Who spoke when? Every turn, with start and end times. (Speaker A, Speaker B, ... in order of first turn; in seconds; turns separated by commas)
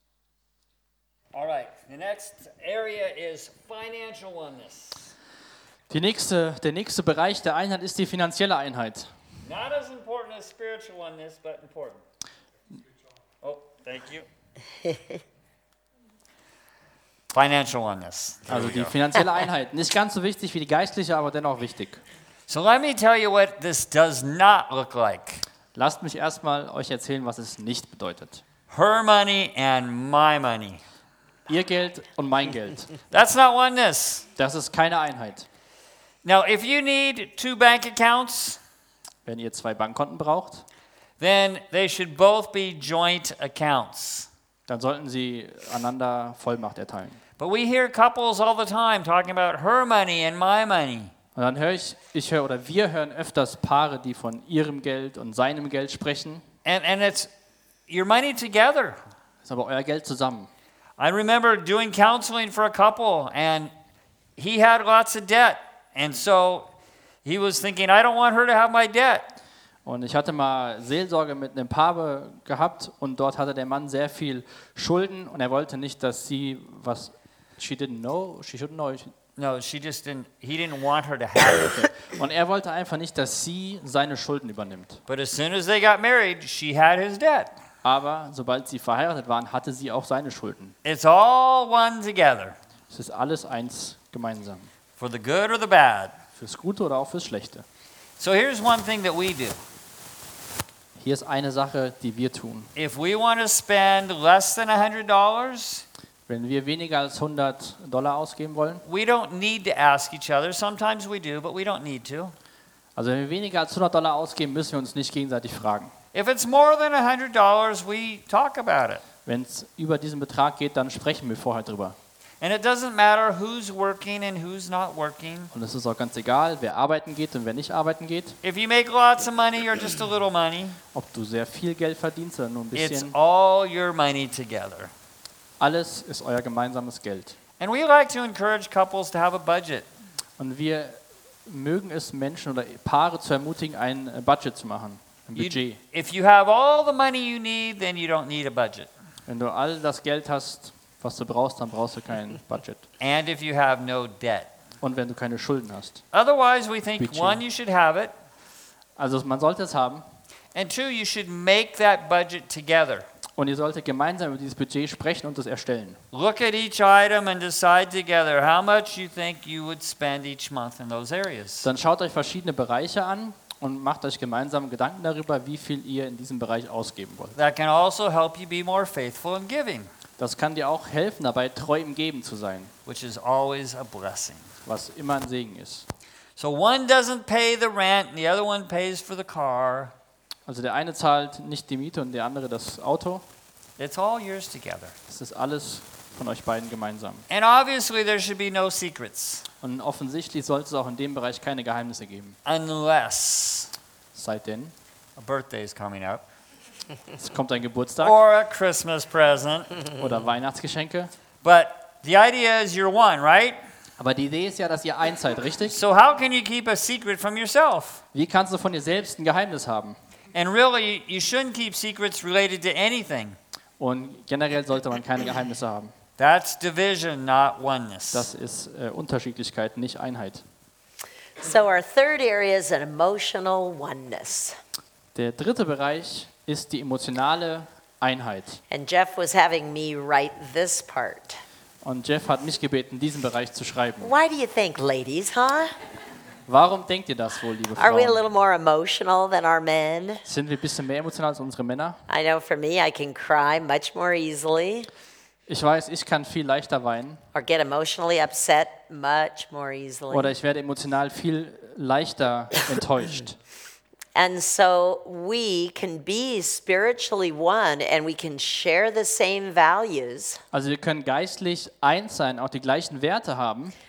Speaker A: 1.3-5.1, Speaker B: 5.9-9.1, Speaker A: 9.4-12.0, Speaker A: 13.4-14.3, Speaker A: 17.3-18.9, Speaker B: 18.5-22.0, Speaker A: 22.5-25.4, Speaker B: 25.8-28.4, Speaker A: 28.7-30.8, Speaker B: 31.5-32.9, Speaker A: 33.1-34.3, Speaker B: 34.4-35.5, Speaker A: 36.2-38.6, Speaker B: 39.2-40.6, Speaker A: 41.2-44.3, Speaker B: 44.7-47.2, Speaker A: 47.4-51.1, Speaker B: 51.4-56.4, Speaker A: 56.6-57.3, Speaker A: 57.9-59.0, Speaker B: 59.4-60.5, Speaker A: 61.0-63.7, Speaker A: 64.4-66.7, Speaker A: 67.2-69.3, Speaker B: 69.9-79.1, Speaker A: 79.4-81.8, Speaker B: 81.8-85.0, Speaker A: 85.1-87.5, Speaker B: 87.8-90.8, Speaker A: 90.8-92.6, Speaker B: 92.9-94.7, Speaker A: 95.0-96.2, Speaker B: 96.4-97.7, Speaker A: 98.2-99.6, Speaker B: 101.0-102.7, Speaker A: 102.8-105.8, Speaker B: 106.3-108.8, Speaker A: 108.8-112.3, Speaker B: 113.0-115.9, Speaker A: 116.1-119.0, Speaker B: 119.3-122.0, Speaker A: 122.4-125.5, Speaker B: 125.5-128.4, Speaker A: 128.4-130.8, Speaker B: 130.9-133.2, Speaker A: 132.8-134.9, Speaker B: 135.6-137.4, Speaker A: 137.6-139.9, Speaker B: 140.4-145.8, Speaker A: 145.4-148.9, Speaker B: 149.3-152.8, Speaker A: 153.0-154.5, Speaker B: 154.8-156.0, Speaker A: 156.1-158.1, Speaker B: 157.0-157.4, Speaker B: 159.0-160.0, Speaker A: 160.5-163.1, Speaker B: 163.4-166.0, Speaker A: 166.1-171.7, Speaker B: 171.6-177.4, Speaker A: 177.4-179.9, Speaker B: 180.2-182.7, Speaker A: 182.9-184.5, Speaker B: 184.7-185.9, Speaker A: 186.4-189.9, Speaker B: 190.5-193.2, Speaker A: 193.8-194.9, Speaker B: 195.1-197.2, Speaker A: 197.3-199.5, Speaker B: 199.6-202.4, Speaker A: 202.4-203.7, Speaker B: 204.1-204.7, Speaker A: 205.2-206.2, Speaker B: 207.2-208.2, Speaker A: 208.0-209.8, Speaker B: 210.0-211.1, Speaker A: 211.4-213.6, Speaker B: 214.0-215.8, Speaker A: 215.7-218.0, Speaker B: 218.1-220.0, Speaker A: 220.3-223.4, Speaker B: 223.8-225.9, Speaker A: 226.2-228.3, Speaker B: 228.1-230.4, Speaker C: 231.4-234.6, Speaker B: 235.2-238.6, Speaker C: 238.7-241.4, Speaker B: 241.8-244.1, Speaker C: 244.0-245.7, Speaker B: 246.5-248.2, Speaker C: 247.8-250.2, Speaker B: 250.3-252.0, Speaker C: 252.1-254.9, Speaker B: 255.5-257.2, Speaker C: 257.3-260.3, Speaker B: 260.1-263.4, Speaker C: 264.1-270.4, Speaker B: 270.5-273.7